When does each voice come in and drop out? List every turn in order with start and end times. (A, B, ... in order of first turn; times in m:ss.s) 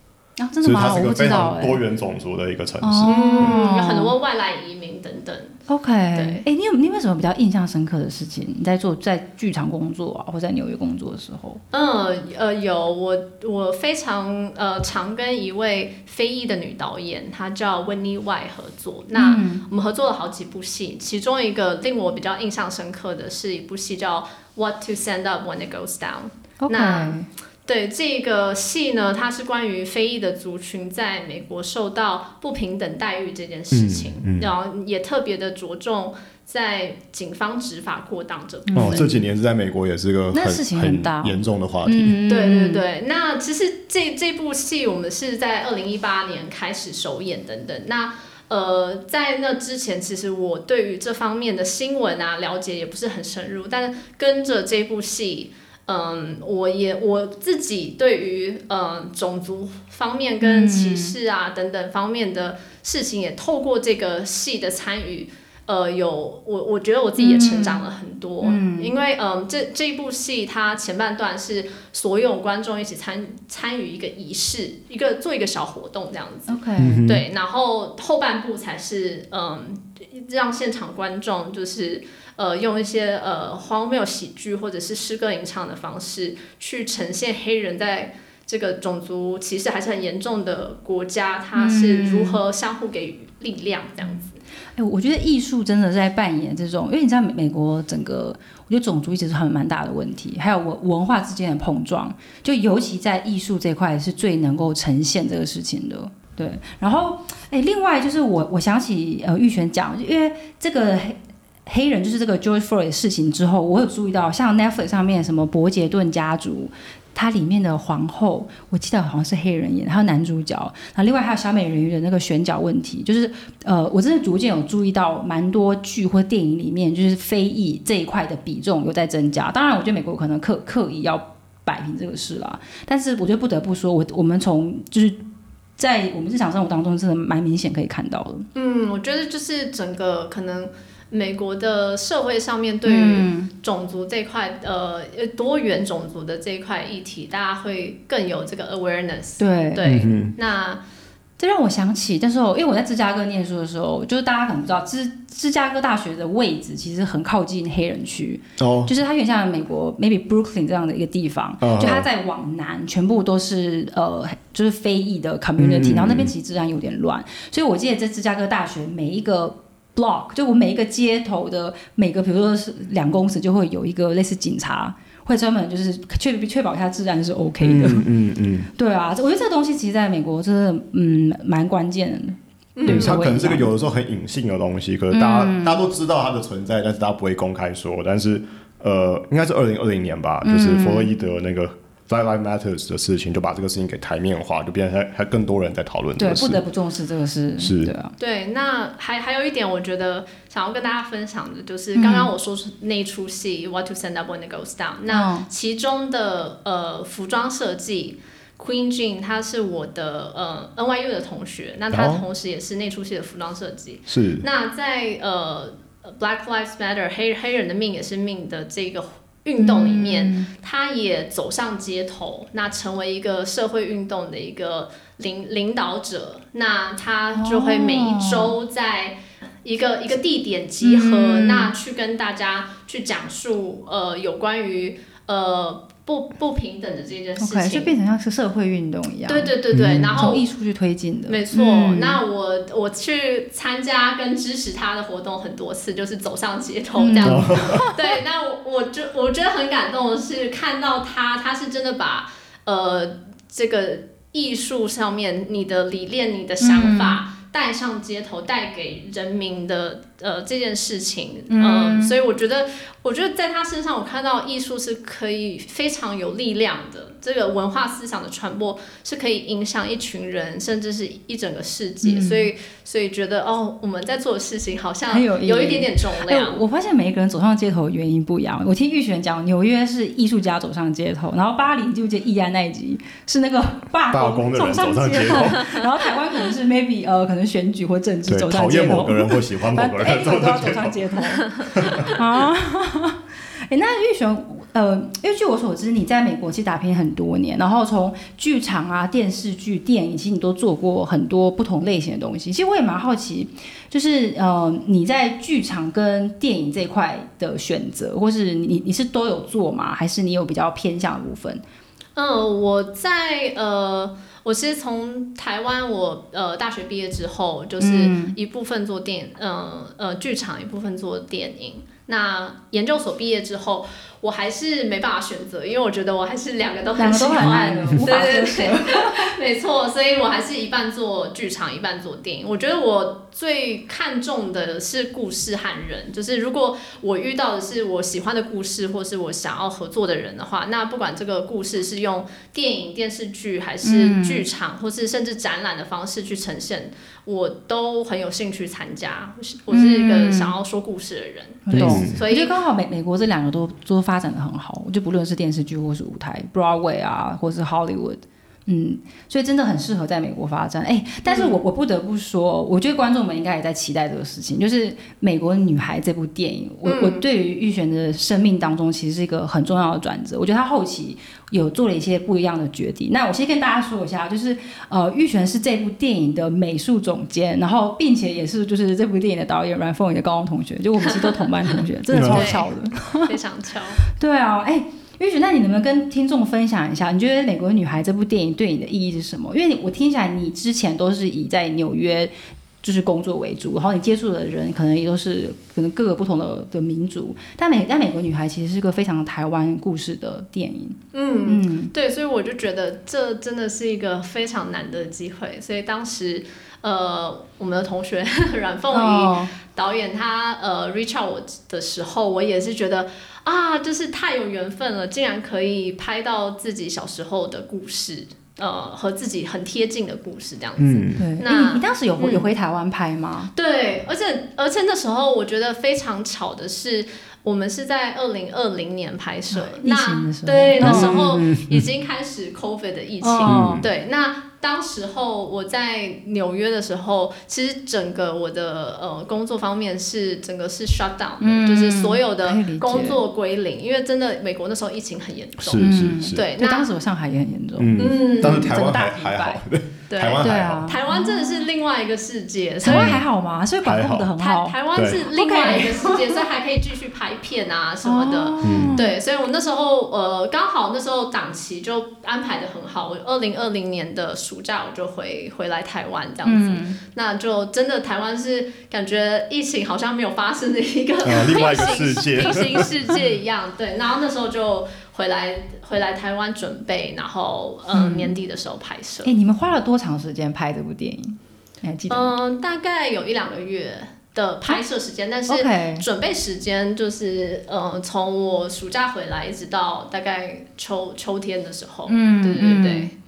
0:00.4-0:01.8 A
0:00.6-0:03.6 B
0:02.8-0:04.1 A
0:03.1-0:05.6 C
0:05.7-0:11.6 A
0:06.1-0:06.4 C
0:11.7-0:39.1 C
0:19.1-0:19.6 A
0:26.6-0:27.3 A
0:33.7-0:34.5 B
0:38.7-0:39.1 A
0:38.8-0:42.2 B
0:40.3-0:42.8 A
0:42.3-1:34.4 C
1:00.4-1:01.2 A
1:07.2-1:07.8 A
1:08.4-1:09.0 A
1:16.5-1:17.0 A
1:16.8-1:17.2 B
1:31.6-1:32.4 A
1:34.8-2:15.2 A
2:15.8-2:18.5 A
2:18.6-2:30.8 C
2:22.8-2:23.5 A
2:29.4-2:29.8 A
2:29.8-2:30.3 B
2:31.4-2:58.1 A
2:38.6-2:38.9 B
2:41.6-2:42.1 B
2:45.6-2:46.3 B
2:57.6-2:58.7 B
2:58.8-3:03.7 A
3:02.8-3:03.2 C
3:02.9-3:16.6 B
3:05.1-3:05.8 A
3:10.4-3:11.1 A
3:16.2-3:18.1 A
3:17.6-3:17.9 B
3:18.2-3:57.9 C
3:22.0-3:22.3 A
3:25.1-3:25.5 A
3:31.9-3:32.2 B
3:34.1-3:34.5 B
3:39.6-3:40.5 A
3:47.4-3:48.6 A
3:50.8-3:51.7 A
3:57.4-4:02.2 A
3:59.3-4:00.4 C
3:59.7-4:00.1 B
4:01.3-4:36.6 C
4:07.0-4:07.9 A
4:07.2-4:07.8 B
4:16.6-4:17.2 A
4:21.5-4:22.2 A
4:32.0-4:32.5 A
4:35.1-5:11.6 A
4:44.1-4:45.7 B
4:48.3-4:51.0 B
4:51.7-4:52.1 B
5:12.2-5:52.5 C
5:17.8-5:18.4 A
5:27.0-5:29.3 A
5:27.5-5:28.1 B
5:43.8-5:44.5 A
5:49.7-5:50.6 A
5:51.7-6:23.4 A
5:51.7-5:52.2 B
6:01.3-6:01.6 C
6:06.8-6:07.2 C
6:21.1-6:21.5 C
6:22.1-6:22.6 B
6:22.2-6:24.0 C
6:24.1-6:41.9 A
6:41.1-7:02.5 C
6:48.9-6:49.5 A
7:00.8-7:01.3 B
7:01.2-7:03.5 A
7:03.6-7:26.9 C
7:09.5-7:11.4 A
7:10.8-7:11.9 B
7:13.2-7:13.8 A
7:13.5-7:13.9 B
7:21.4-7:23.2 A
7:25.6-7:26.4 B
7:25.8-7:29.6 A
7:27.8-7:30.8 B
7:28.0-7:28.7 C
7:30.1-7:33.2 C
7:30.4-7:31.7 A
7:32.8-7:36.3 A
7:32.9-7:33.2 B
7:33.8-7:34.3 B
7:34.4-7:59.3 C
7:34.9-7:35.2 B
7:38.0-7:39.1 A
7:38.6-7:39.0 B
7:46.4-7:47.0 A
7:51.2-7:52.9 B
7:57.9-7:58.3 A
7:59.2-8:02.3 A
8:02.1-8:13.1 C
8:05.5-8:06.0 A
8:12.1-8:13.1 A